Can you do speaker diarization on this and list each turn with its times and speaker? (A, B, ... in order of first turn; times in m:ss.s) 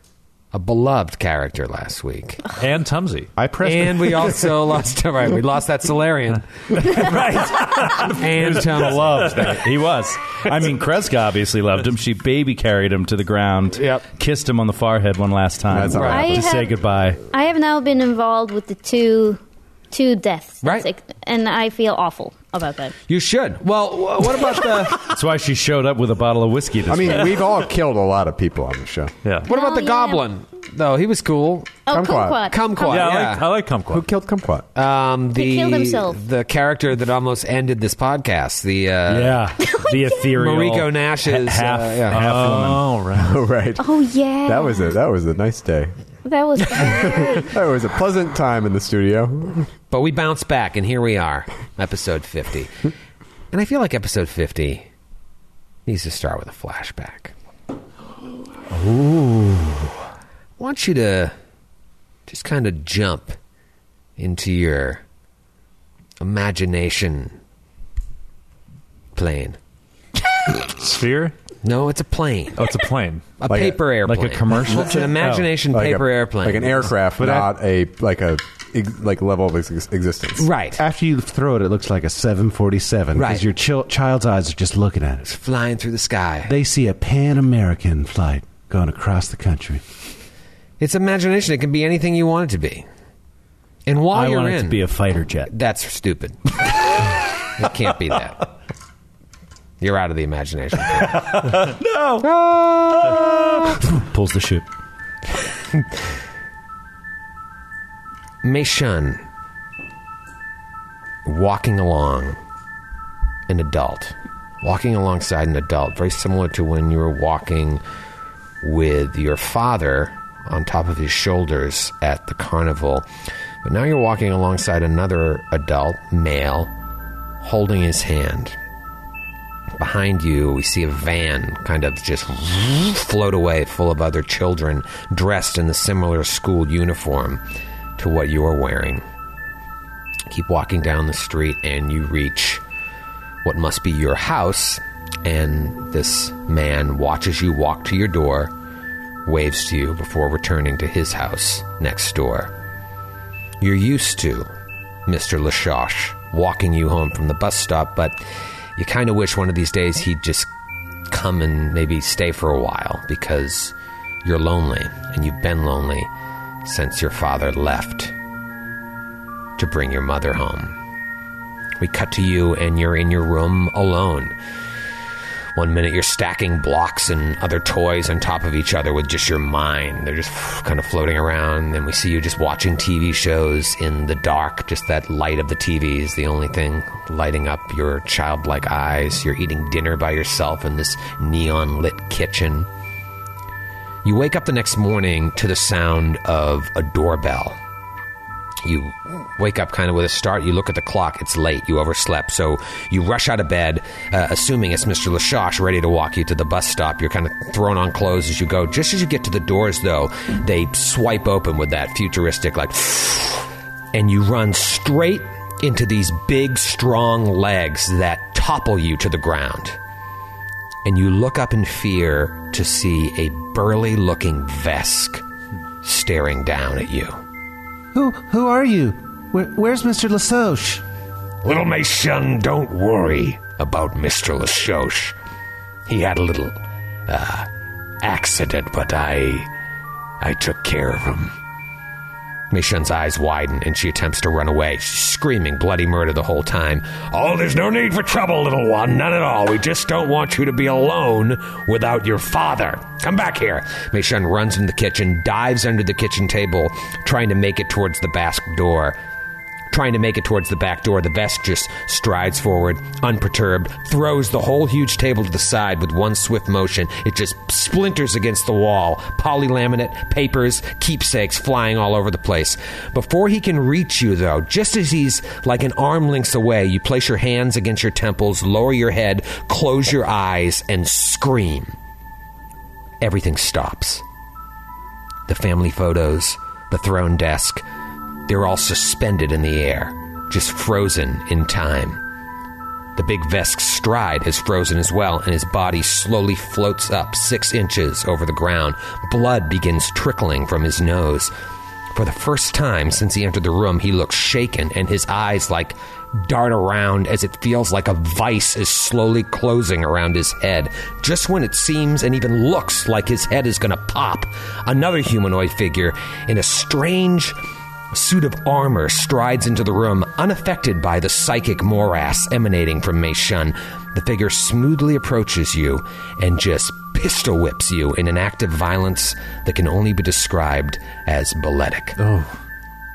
0:00.5-0:02.5 A
0:02.5-0:03.3 B
0:03.4-0:04.5 C
0:03.6-0:07.0 A
0:06.9-0:17.2 D
0:07.1-0:08.0 B
0:08.0-0:09.6 A
0:13.8-0:14.0 A
0:15.7-0:16.6 E
0:16.0-0:16.2 B
0:16.0-0:16.7 F
0:17.3-0:19.4 F
0:19.9-0:22.9 F
0:23.1-0:25.1 A
0:25.1-0:27.4 D
0:26.8-0:29.1 E
0:29.4-0:31.8 A
0:29.5-0:30.2 F
0:31.9-0:33.1 F
0:31.9-0:32.5 E
0:32.4-0:33.5 A
0:32.8-0:34.1 B
0:33.9-0:34.6 E
0:34.7-0:39.5 A
0:35.3-0:36.2 F
0:39.1-0:42.8 D
0:39.6-0:40.2 F
0:40.3-0:42.2 A
0:42.1-0:43.4 B
0:43.1-0:43.9 E
0:43.8-0:44.9 F
0:44.4-0:45.9 E
0:46.2-0:47.5 F
0:46.7-0:49.7 E
0:49.9-0:52.8 A
0:53.5-0:54.9 A
0:55.8-0:57.3 A
0:58.8-0:59.6 D
1:00.6-1:01.3 A
1:02.3-1:03.4 A
1:04.2-1:05.0 A
1:06.2-1:07.4 A
1:09.2-1:09.6 A
1:10.7-1:11.3 B
1:11.6-1:12.7 A
1:12.6-1:13.2 B
1:13.4-1:16.9 A
1:13.5-1:13.9 E
1:14.0-1:15.5 D
1:15.7-1:20.5 E
1:17.2-1:17.5 C
1:20.4-1:20.8 A
1:20.8-1:25.3 C
1:23.1-1:23.5 A
1:25.2-1:26.5 A
1:26.4-1:29.8 C
1:30.8-1:32.8 A
1:33.8-1:34.8 A
1:34.1-1:35.5 D
1:35.5-1:38.5 A
1:39.8-1:41.6 A
1:41.3-1:42.2 D
1:42.2-1:43.8 A
1:43.1-1:44.6 D
1:48.4-1:49.2 A
1:51.2-1:52.4 A
1:53.5-1:57.8 A
1:58.6-2:03.0 A
2:03.6-2:06.7 A
2:07.4-2:08.6 A
2:09.8-2:17.4 A
2:18.0-2:19.0 A
2:20.3-2:22.6 A
2:23.4-2:28.5 A
2:29.2-2:32.5 A
2:33.6-2:34.5 A
2:35.0-2:38.2 A
2:38.8-2:40.5 A
2:41.1-2:46.1 A
2:46.6-2:48.1 A
2:49.6-2:50.8 A
2:51.8-2:54.3 A
2:55.5-3:12.7 A
3:14.0-3:17.6 A
3:18.6-3:39.8 A
3:40.8-3:45.2 A
3:45.8-3:47.2 A
3:47.9-3:50.8 C
3:51.4-3:55.1 A
3:55.9-3:57.5 A
3:58.0-3:59.5 A
4:00.2-4:01.4 A
4:02.5-4:19.0 A
4:19.7-4:41.7 A
4:43.0-4:44.0 A
4:45.3-4:47.6 A
4:48.3-4:52.0 A
4:53.0-5:01.3 A
5:01.9-5:17.4 A
5:17.9-5:32.0 A